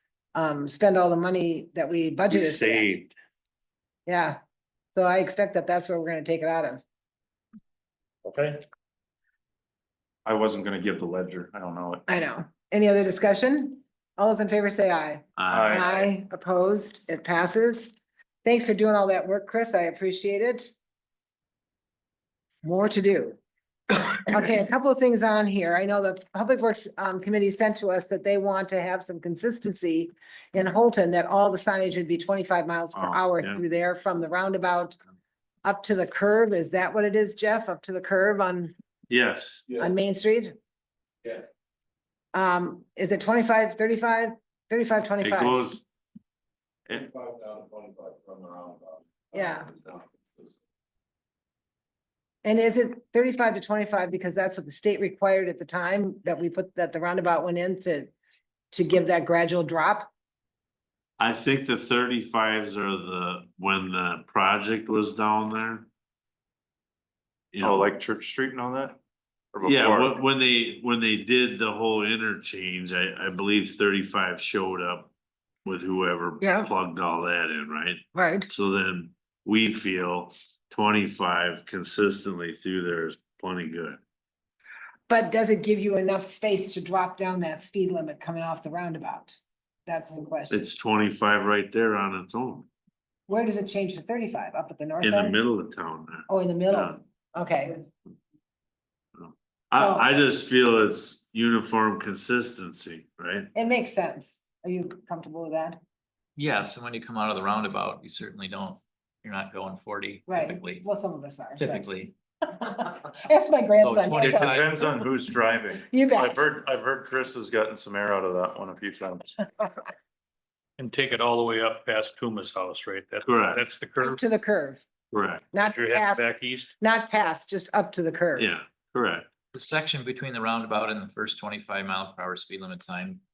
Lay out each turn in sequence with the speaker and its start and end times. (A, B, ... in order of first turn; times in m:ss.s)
0:00.3-0:02.9 A
0:02.3-0:03.1 B
0:04.0-0:04.4 A
0:04.9-0:06.8 A
0:08.2-0:08.6 C
0:10.2-0:12.0 D
0:12.1-0:20.7 A
0:15.4-0:15.8 B
0:15.5-0:16.1 D
0:22.6-0:23.4 A
0:23.9-0:35.0 A
0:32.9-0:33.6 B
0:35.6-0:38.7 A
0:39.1-0:39.7 B
0:39.8-0:40.6 A
0:42.3-0:45.6 A
0:45.2-0:45.8 B
0:46.9-0:50.6 D
0:49.3-0:49.7 A
0:52.4-0:58.1 A
0:58.7-1:00.1 A
1:01.2-1:05.9 B
1:07.5-1:07.9 B
1:07.6-1:09.0 D
1:09.5-1:10.2 D
1:09.6-1:15.1 B
1:15.6-1:24.0 B
1:16.4-1:16.7 A
1:18.1-1:18.5 A
1:25.1-1:30.6 A
1:30.5-1:32.7 B
1:33.3-1:35.4 A
1:35.0-1:37.0 B
1:36.3-1:37.8 A
1:39.2-1:43.5 B
1:39.8-1:40.0 A
1:43.5-1:45.8 A
1:46.4-1:50.8 E
1:50.3-1:51.9 A
1:51.6-1:52.1 E
1:52.4-1:55.0 A
1:53.8-1:54.7 E
1:54.2-1:59.4 D
1:55.9-1:56.5 A
2:00.8-2:04.2 C
2:03.2-2:03.6 B
2:04.0-2:04.8 A
2:05.1-2:05.5 B
2:05.5-2:08.5 A
2:05.6-2:06.7 C
2:08.4-2:09.3 B
2:09.5-2:13.2 E